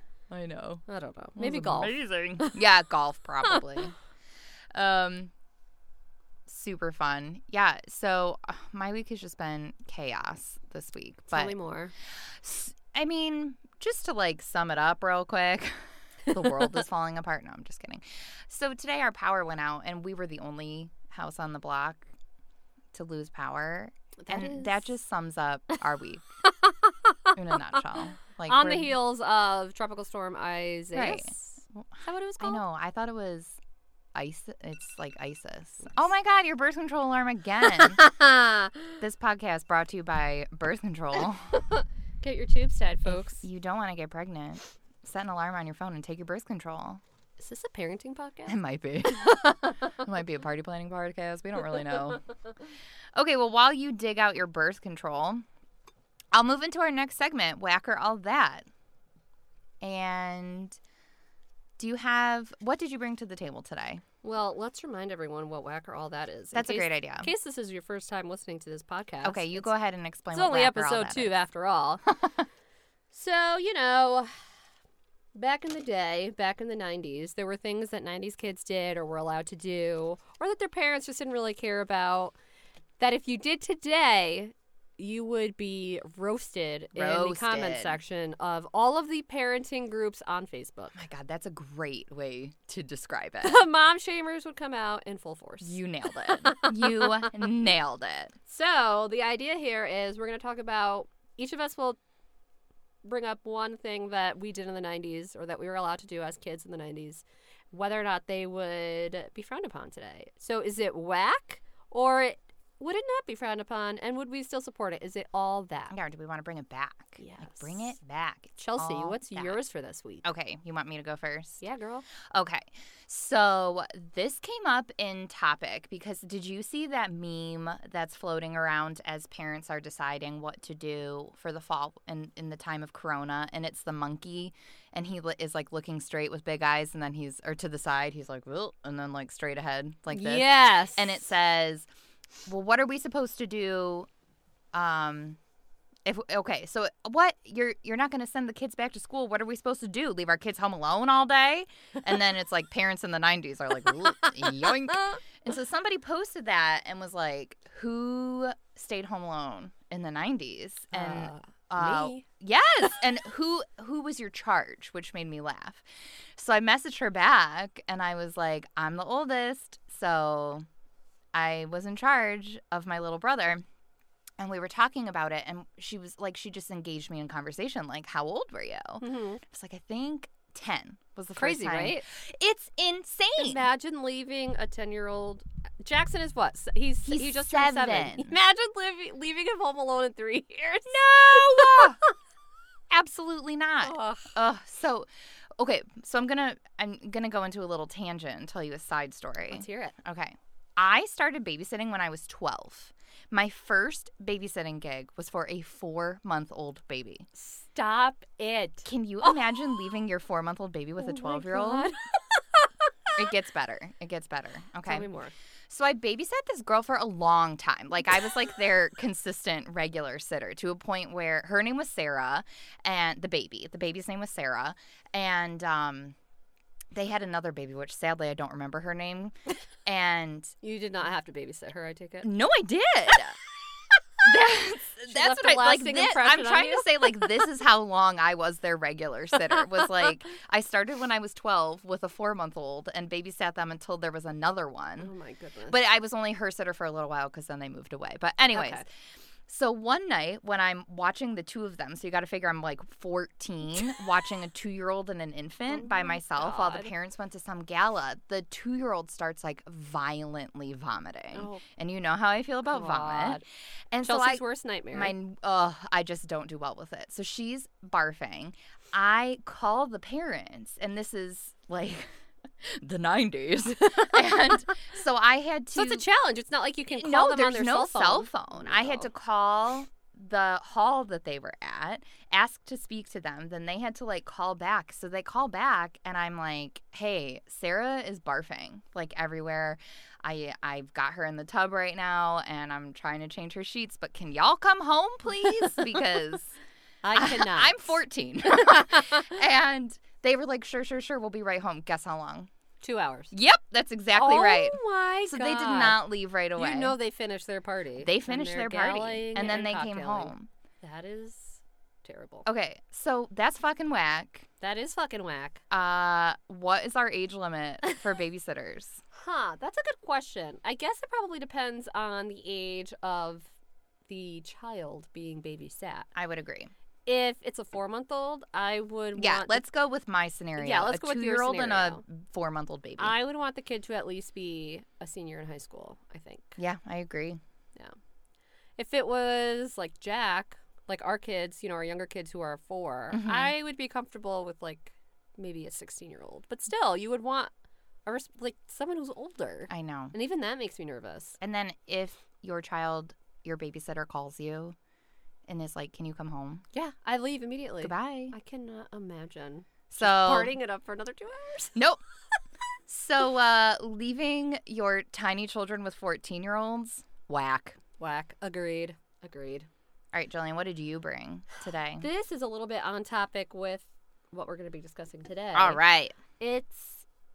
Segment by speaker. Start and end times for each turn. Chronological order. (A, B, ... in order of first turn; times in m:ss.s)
0:00.3-0:00.8 A
0:00.9-0:02.6 B
0:01.4-0:04.0 A
0:04.7-0:05.3 A
0:06.5-0:11.6 A
0:11.3-0:11.9 B
0:12.2-0:22.1 A
0:22.9-0:26.2 A
0:24.2-0:24.8 B
0:26.4-0:27.3 B
0:27.3-0:29.0 A
0:28.5-0:32.6 B
0:30.9-0:33.6 A
0:34.1-0:38.0 A
0:37.9-0:39.0 B
0:39.0-0:41.6 A
0:41.6-0:43.4 B
0:43.0-0:47.0 A
0:47.4-0:48.6 B
0:48.5-0:52.3 A
0:53.2-0:55.4 A
0:56.3-0:58.7 A
0:59.8-1:00.8 A
1:01.8-1:04.0 A
1:04.2-1:09.7 B
1:06.5-1:07.3 A
1:09.2-1:11.4 A
1:10.3-1:12.0 B
1:13.1-1:14.4 B
1:15.3-1:22.4 B
1:23.0-1:31.0 B
1:26.9-1:28.0 A
1:30.9-1:33.6 A
1:33.4-1:35.8 B
1:35.6-1:38.4 A
1:36.3-1:37.3 B
1:38.5-1:42.0 B
1:43.0-1:55.9 B
1:55.9-1:59.6 A
1:57.2-1:57.9 B
1:58.6-2:00.2 B
2:00.2-2:01.6 A
2:01.6-2:02.0 B
2:02.3-2:21.9 A
2:20.1-2:21.3 B
2:22.5-2:24.1 A
2:24.7-2:25.4 A
2:26.0-2:50.7 A
2:34.0-2:35.2 B
2:40.9-2:42.2 B
2:51.3-2:53.6 A
2:54.4-3:03.6 A
2:59.0-2:59.4 B
3:01.4-3:02.1 B
3:03.4-3:12.1 B
3:07.1-3:08.4 A
3:10.9-3:12.0 A
3:12.9-3:27.3 A
3:13.8-3:14.3 B
3:19.5-3:19.9 B
3:27.4-3:29.4 B
3:28.8-3:31.9 A
3:31.0-3:33.2 B
3:33.2-3:35.1 A
3:34.8-3:35.3 B
3:35.7-3:46.2 A
3:46.9-3:50.6 A
3:50.6-3:52.3 B
3:52.2-3:53.4 A
3:54.2-4:05.1 A
3:55.1-3:57.3 B
4:05.0-4:05.8 B
4:05.7-4:08.9 A
4:08.5-4:08.8 B
4:09.5-4:32.1 A
4:15.7-4:16.9 B
4:21.3-4:21.6 B
4:22.7-4:23.4 B
4:24.0-4:25.2 B
4:32.6-4:36.0 A
4:35.7-4:39.1 B
4:36.9-4:56.6 A
4:57.0-4:58.0 B
4:57.1-5:02.5 A
4:58.6-4:59.3 B
5:02.8-5:03.3 B
5:03.3-5:07.0 A
5:04.1-5:06.0 B
5:06.6-5:12.5 B
5:08.0-5:10.5 A
5:12.5-5:14.5 A
5:14.6-5:15.6 B
5:15.7-5:19.0 A
5:19.1-5:23.5 B
5:24.1-5:26.1 B
5:26.2-5:26.7 A
5:27.1-5:29.6 B
5:29.2-5:33.2 A
5:30.6-5:32.0 B
5:33.0-5:36.6 B
5:36.6-5:37.4 A
5:38.8-5:47.5 B
5:43.1-5:43.5 A
5:48.1-5:51.4 B
5:49.7-5:50.2 A
5:51.4-5:54.8 A
5:55.5-5:56.6 A
5:56.7-6:01.8 B
5:57.8-5:58.4 A
5:59.9-6:00.5 A
6:01.8-6:02.0 A
6:02.9-6:07.8 A
6:08.0-6:09.7 B
6:10.1-6:12.1 A
6:12.0-6:15.8 B
6:15.6-6:16.2 A
6:16.4-6:17.0 B